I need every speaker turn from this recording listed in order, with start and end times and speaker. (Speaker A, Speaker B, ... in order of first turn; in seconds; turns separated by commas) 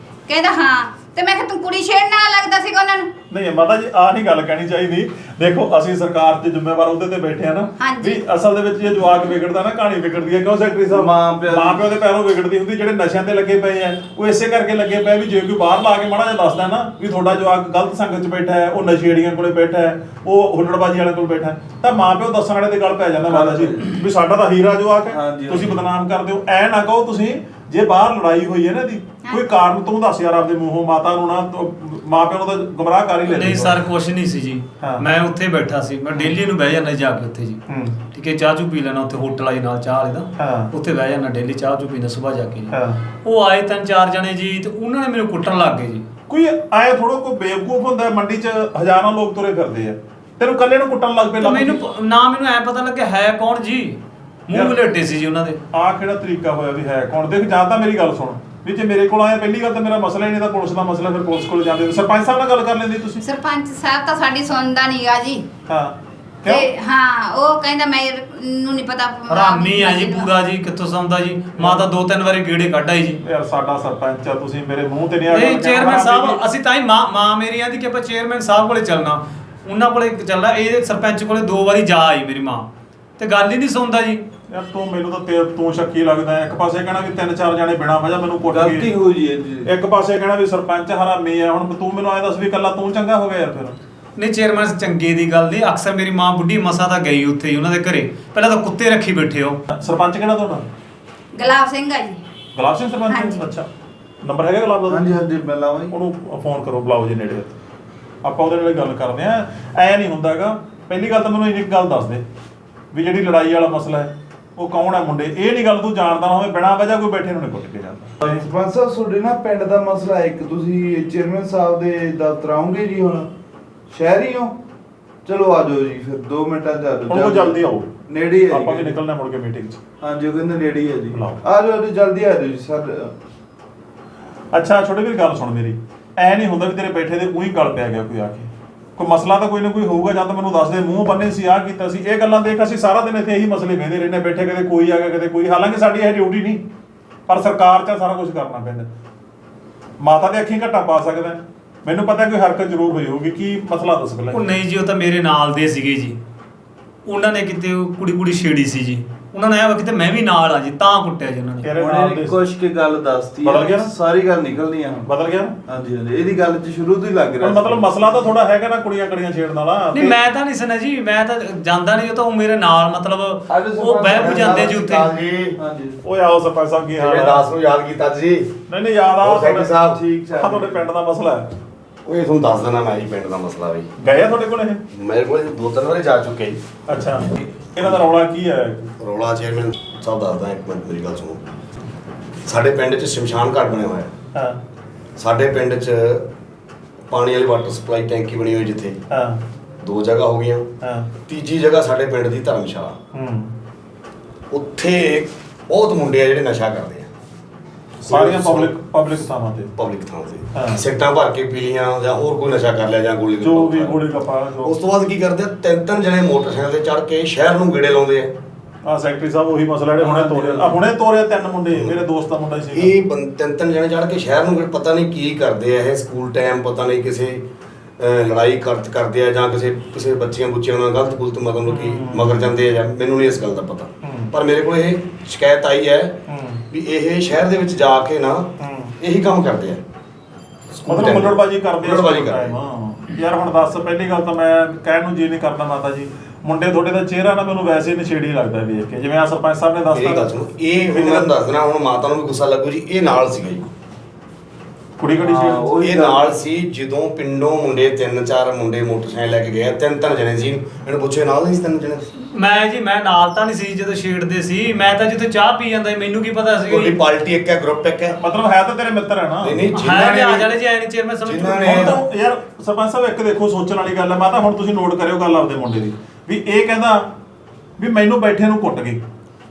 Speaker A: 0.3-3.1, Speaker B: 3.3-33.9, Speaker A: 7.8-8.2, Speaker C: 10.9-11.9, Speaker C: 23.3-23.9, Speaker C: 25.1-25.8, Speaker D: 33.2-37.6, Speaker B: 37.7-38.0, Speaker D: 38.1-46.0, Speaker B: 40.4-40.7, Speaker B: 42.7-43.0, Speaker B: 46.3-51.8, Speaker D: 51.4-55.6, Speaker B: 55.7-63.2, Speaker A: 63.2-65.5, Speaker B: 65.7-66.7, Speaker A: 66.5-70.3, Speaker D: 69.3-73.2, Speaker B: 71.6-71.9, Speaker B: 73.2-76.4, Speaker D: 75.3-82.7, Speaker D: 83.2-84.2, Speaker B: 84.5-88.9, Speaker C: 88.4-89.7, Speaker B: 89.6-93.8, Speaker D: 94.2-99.6, Speaker B: 99.7-100.6, Speaker A: 101.3-102.2, Speaker B: 102.5-103.7, Speaker A: 103.1-103.4, Speaker B: 104.2-105.0, Speaker C: 104.9-106.0, Speaker B: 105.9-107.5, Speaker B: 108.2-112.2, Speaker B: 112.9-118.5, Speaker C: 118.2-123.3, Speaker C: 123.9-124.5, Speaker C: 125.2-129.0, Speaker B: 127.1-127.9, Speaker B: 128.5-129.8, Speaker C: 130.0-133.1, Speaker B: 131.1-131.4, Speaker B: 134.5-146.6, Speaker B: 147.3-148.9, Speaker B: 150.0-154.4, Speaker D: 154.3-156.2, Speaker D: 157.1-161.7, Speaker B: 161.6-162.4, Speaker C: 161.7-165.1, Speaker B: 163.4-163.9, Speaker B: 165.1-165.6, Speaker C: 165.7-168.1, Speaker B: 167.4-170.2, Speaker D: 169.9-175.1, Speaker C: 173.5-174.8, Speaker E: 174.1-175.6, Speaker C: 175.6-176.0, Speaker B: 176.0-177.4, Speaker E: 176.9-178.6, Speaker B: 178.7-179.7, Speaker E: 179.2-180.0, Speaker C: 179.8-180.9, Speaker B: 180.4-181.5, Speaker E: 182.0-183.9, Speaker B: 184.0-184.8, Speaker E: 184.9-186.6, Speaker B: 186.9-188.8, Speaker E: 189.0-191.4, Speaker E: 192.4-194.1, Speaker B: 194.3-194.6, Speaker E: 195.2-196.2, Speaker E: 197.1-199.0, Speaker B: 199.1-199.4, Speaker E: 199.8-200.7, Speaker B: 200.8-201.1, Speaker E: 201.2-203.0, Speaker B: 203.1-203.5, Speaker E: 204.5-207.1, Speaker B: 208.0-209.7, Speaker E: 208.1-208.7, Speaker E: 209.8-214.0, Speaker B: 210.5-210.8, Speaker B: 213.4-214.7, Speaker E: 214.6-218.3, Speaker B: 218.8-222.9, Speaker E: 220.0-220.7, Speaker E: 221.7-222.0, Speaker E: 222.7-227.5, Speaker E: 228.0-239.8, Speaker B: 231.7-232.4, Speaker B: 234.0-234.3, Speaker B: 236.3-236.6, Speaker B: 238.6-238.9, Speaker E: 240.7-242.6, Speaker B: 240.9-250.3, Speaker E: 249.9-253.7, Speaker B: 250.9-251.3, Speaker B: 255.0-255.7, Speaker C: 255.1-256.3, Speaker E: 255.8-262.1, Speaker D: 262.3-266.9, Speaker E: 266.7-268.2, Speaker B: 268.2-269.6, Speaker E: 269.4-270.5, Speaker D: 269.7-271.9, Speaker E: 271.2-272.0, Speaker B: 271.7-277.1, Speaker B: 277.8-279.0